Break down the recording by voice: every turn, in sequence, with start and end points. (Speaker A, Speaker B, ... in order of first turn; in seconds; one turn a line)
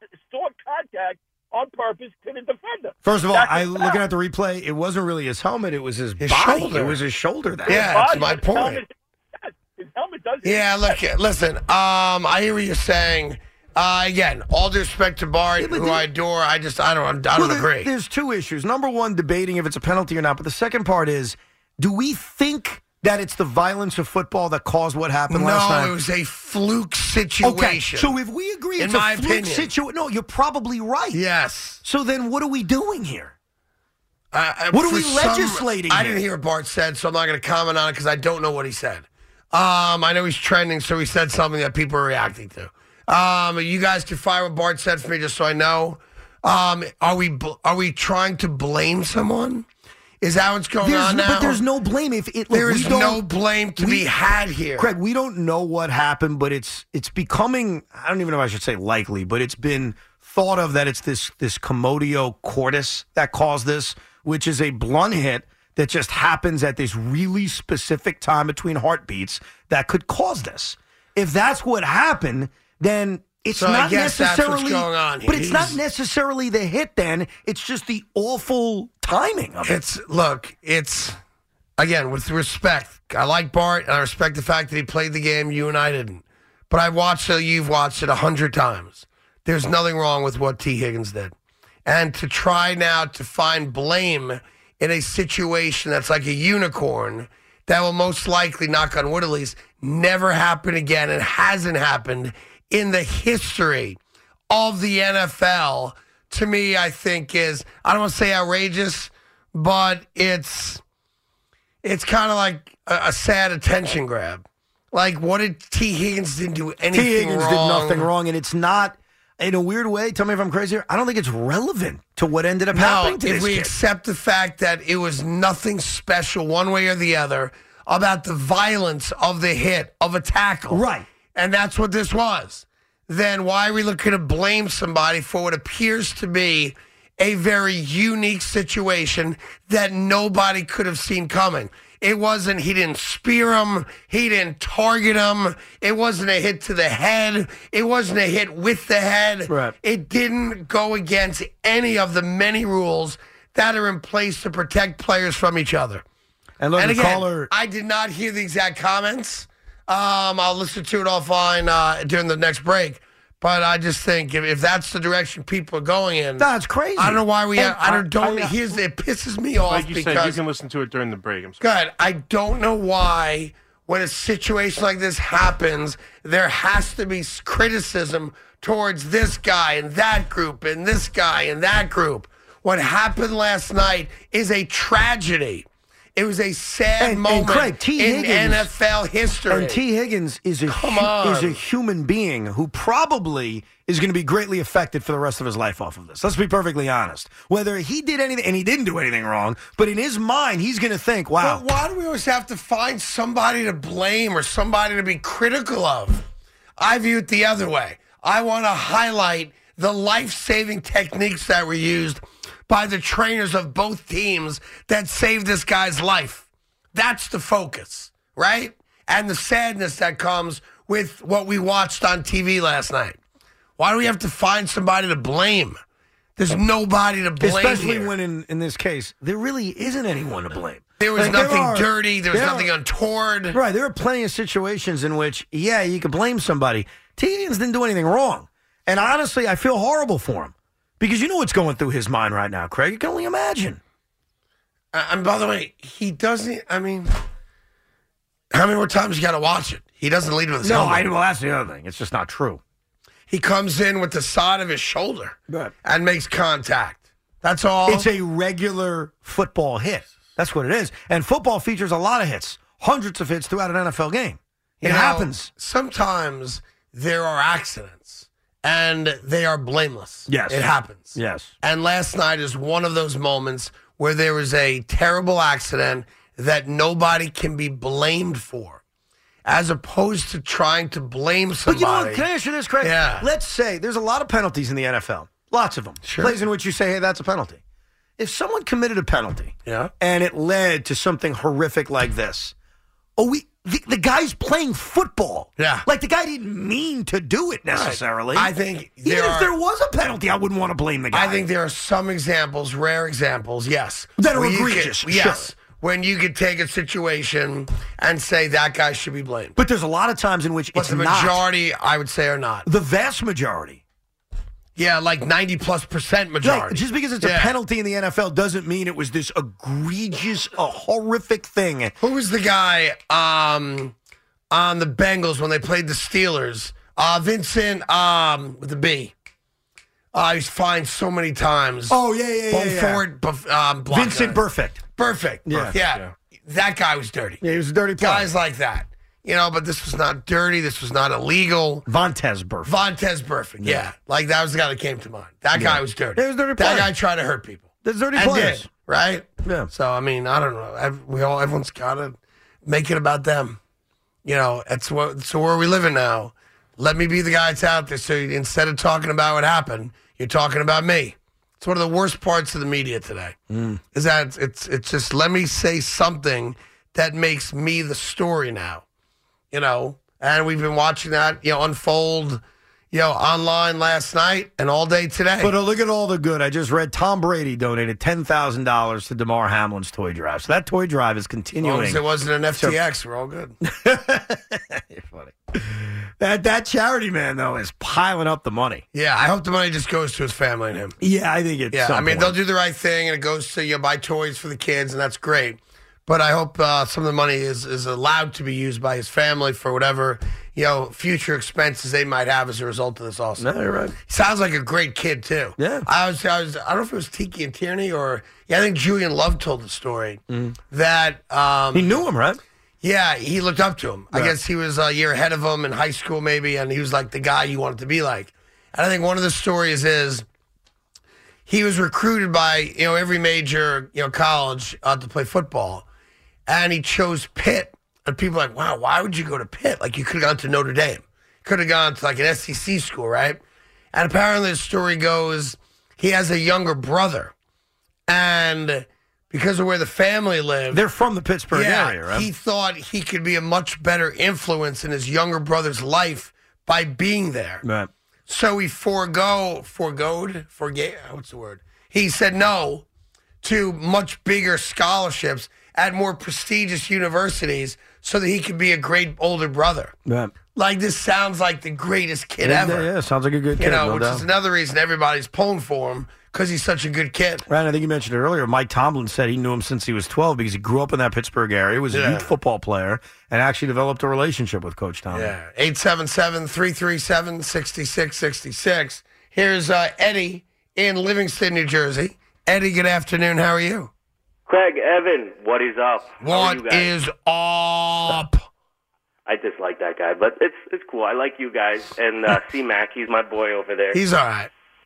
Speaker A: 0.2-4.0
Speaker B: 3.0-8.1
Speaker C: 6.2-7.0
Speaker C: 7.7-8.8
Speaker A: 7.7-11.0
Speaker C: 10.4-17.9
Speaker B: 15.6-16.1
Speaker B: 17.3-25.9
Speaker C: 25.3-28.1
Speaker B: 27.4-31.2
Speaker C: 28.8-29.7
Speaker C: 31.1-31.8
Speaker B: 31.8-33.3
Speaker C: 34.3-49.6
Speaker B: 34.7-36.2
Speaker C: 50.2-51.6
Speaker B: 50.8-53.2
Speaker C: 52.5-54.9
Speaker B: 53.8-54.1
Speaker B: 54.8-79.8
Speaker C: 73.5-75.8
Speaker C: 79.6-81.2
Speaker C: 81.8-91.3
Speaker C: 91.8-104.0
Speaker C: 104.5-110.8
Speaker C: 111.8-118.1
Speaker B: 116.9-123.7
Speaker C: 122.7-130.8
Speaker B: 130.7-131.1
Speaker C: 131.3-156.0
Speaker B: 149.5-149.7
Speaker B: 156.6-157.5
Speaker C: 156.8-170.4
Speaker B: 166.4-168.5
Speaker D: 169.7-171.6
Speaker C: 171.6-189.8
Speaker B: 187.0-188.7
Speaker B: 189.5-201.6
Speaker C: 190.7-191.6
Speaker C: 201.4-206.2
Speaker C: 206.8-223.2
Speaker C: 223.8-225.8
Speaker C: 226.4-228.1
Speaker B: 227.4-232.7
Speaker C: 231.0-233.6
Speaker B: 233.5-243.8
Speaker C: 244.9-247.1
Speaker C: 248.5-251.1
Speaker B: 250.6-252.6
Speaker C: 253.3-258.1
Speaker B: 257.9-265.5
Speaker C: 264.8-278.8
Speaker B: 270.3-271.5
Speaker C: 279.4-282.2
Speaker B: 281.6-287.6
Speaker C: 282.8-283.3
Speaker C: 286.0-286.4
Speaker B: 288.2-292.5
Speaker C: 289.6-289.9
Speaker B: 293.2-298.5
Speaker C: 295.6-295.8
Speaker C: 297.7-299.5
Speaker B: 299.0-301.4
Speaker C: 301.1-309.6
Speaker B: 304.2-305.5
Speaker B: 309.6-311.4
Speaker C: 310.7-312.7
Speaker B: 312.6-313.8
Speaker C: 314.8-317.5
Speaker B: 316.4-321.9
Speaker C: 322.0-323.9
Speaker C: 324.5-329.1
Speaker C: 330.1-332.0
Speaker B: 331.9-333.0
Speaker C: 332.5-334.4
Speaker B: 333.9-334.8
Speaker C: 335.0-337.4
Speaker B: 335.4-335.8
Speaker D: 335.6-336.1
Speaker B: 337.4-338.3
Speaker C: 338.0-341.9
Speaker B: 341.9-342.7
Speaker C: 342.6-353.6
Speaker B: 345.5-346.9
Speaker B: 347.8-348.7
Speaker B: 349.4-349.7
Speaker C: 354.2-363.4
Speaker B: 363.5-363.8
Speaker C: 363.9-368.8
Speaker C: 369.5-372.4
Speaker C: 372.9-375.5
Speaker B: 375.4-382.0
Speaker C: 381.6-383.5
Speaker B: 383.6-388.8
Speaker C: 388.9-390.9
Speaker B: 391.0-392.4
Speaker C: 391.7-403.5
Speaker B: 403.4-404.0
Speaker C: 404.1-412.0
Speaker B: 405.6-405.9
Speaker B: 410.3-410.6
Speaker B: 411.7-412.4
Speaker C: 412.8-420.2
Speaker C: 421.5-425.9
Speaker C: 426.5-433.4
Speaker C: 433.9-437.3
Speaker C: 438.1-440.8
Speaker B: 440.7-442.3
Speaker C: 441.5-447.6
Speaker B: 447.6-447.9
Speaker C: 448.3-452.8
Speaker C: 453.4-459.9
Speaker B: 460.1-460.3
Speaker C: 460.5-462.9
Speaker B: 462.4-464.2
Speaker C: 463.6-467.4
Speaker B: 467.5-475.3
Speaker C: 471.9-472.3
Speaker C: 475.1-483.9
Speaker E: 484.5-486.9
Speaker C: 486.2-488.4
Speaker E: 489.2-494.0
Speaker C: 493.9-494.5